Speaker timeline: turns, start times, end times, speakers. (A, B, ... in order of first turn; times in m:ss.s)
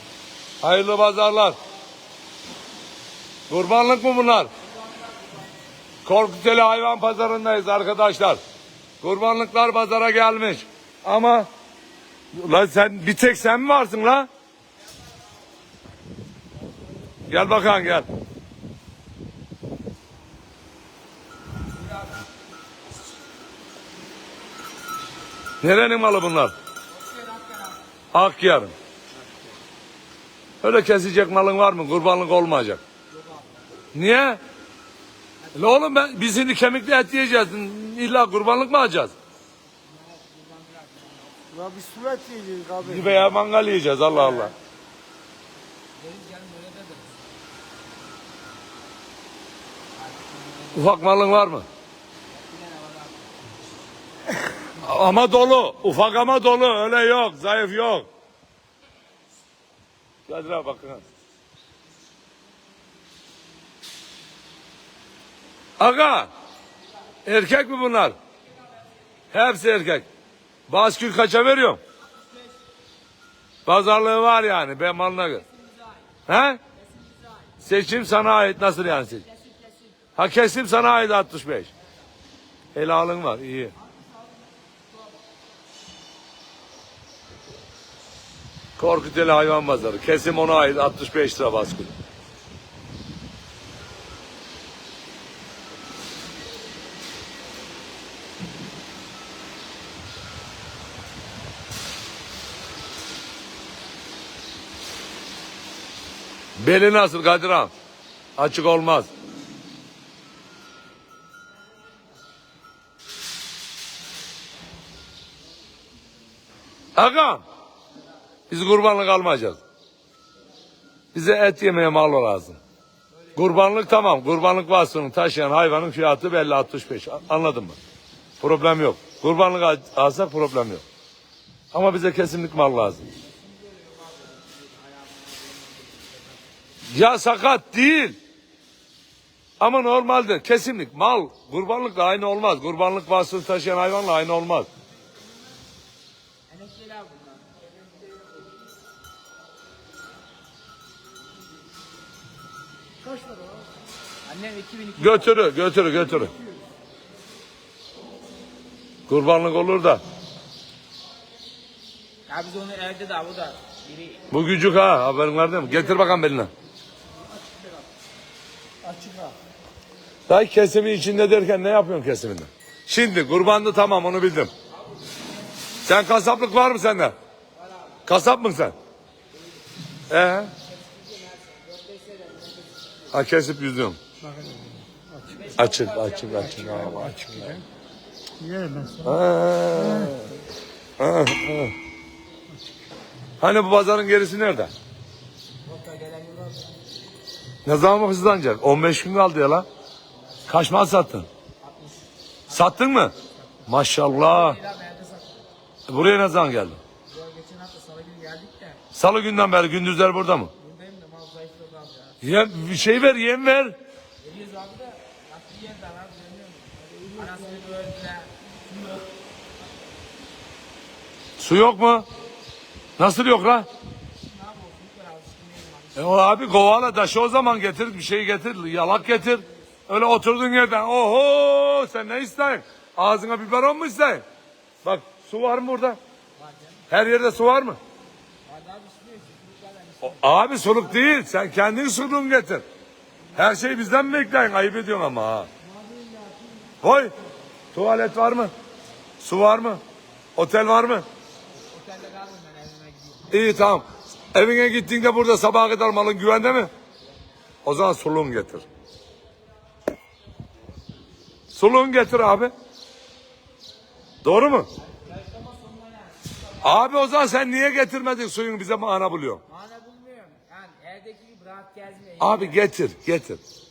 0:00.6-0:01.6 A
0:03.5-0:04.5 A
0:06.0-0:08.4 A
0:09.0-0:11.5 A
0:12.3-0:14.3 A
0:17.3-0:18.1 A
0:25.6-0:26.5 A
0:27.0-0:27.8 B
0:28.1-0:28.7 A
0:30.6-0:32.8 A
0:33.1-0:33.7 B
0:33.9-0:34.4 A
0:35.4-0:35.8 B
0:35.6-0:39.1 A
0:39.8-0:41.6 B
0:41.5-0:43.1 C
0:42.8-0:44.5 A
0:46.0-0:47.3 B
0:50.0-0:51.0 B
0:50.8-0:51.6 A
0:52.3-0:53.3 B
0:54.8-0:58.1 A
1:00.3-1:01.0 A
1:05.8-1:06.3 A
1:07.2-1:08.2 A
1:09.3-1:10.1 A
1:10.7-1:11.8 A
1:13.7-1:15.4 A
1:15.4-1:16.0 B
1:16.3-1:16.6 A
1:16.8-1:17.5 B
1:17.6-1:19.3 A
1:19.2-1:19.9 B
1:20.2-1:21.7 A
1:22.7-1:23.7 A
1:23.9-1:24.4 B
1:28.8-1:31.9 A
1:46.6-1:47.7 A
1:48.4-1:49.1 A
1:57.0-1:57.4 A
1:58.5-1:59.6 A
2:01.1-2:02.6 A
2:03.4-2:07.8 A
2:08.4-2:10.8 A
2:11.7-2:13.0 A
2:13.4-2:16.2 B
2:16.9-2:18.2 A
2:19.6-2:24.7 A
2:26.5-2:27.6 B
2:34.2-2:35.4 B
2:35.0-2:36.3 A
2:39.1-2:40.0 A
2:42.3-2:44.3 B
2:44.3-2:46.5 A
2:50.3-2:54.5 A
2:55.8-2:57.2 A
2:58.1-2:58.8 A
3:00.1-3:00.5 A
3:00.7-3:03.0 B
3:03.1-3:04.0 A
3:05.3-3:07.3 B
3:05.5-3:07.5 A
3:08.4-3:09.0 C
3:09.0-3:10.4 A
3:11.0-3:11.7 A
3:13.4-3:14.7 A
3:15.7-3:16.8 B
3:17.6-3:19.7 A
3:20.5-3:21.3 A
3:21.6-3:25.4 B
3:22.5-3:23.1 A
3:23.7-3:24.6 A
3:25.9-3:26.8 A
3:27.1-3:28.8 B
3:28.9-3:30.5 A
3:30.6-3:32.2 B
3:32.2-3:33.8 A
3:34.2-3:39.0 B
3:41.4-3:42.1 A
3:43.0-3:43.7 A
3:44.2-3:46.2 B
3:46.0-3:54.2 A
3:54.8-3:56.0 A
3:56.4-3:56.9 B
3:56.9-3:57.8 A
3:58.5-4:01.0 B
4:00.0-4:02.6 A
4:03.4-4:05.5 A
4:05.8-4:06.6 B
4:06.8-4:07.1 A
4:07.7-4:08.5 A
4:09.2-4:09.8 A
4:10.4-4:11.0 A
4:11.7-4:13.3 B
4:13.3-4:16.7 A
4:17.6-4:18.6 A
4:21.5-4:22.5 A
4:24.2-4:24.7 A
4:24.8-4:26.8 B
4:26.6-4:29.4 A
4:29.5-4:32.6 B
4:32.2-4:33.4 A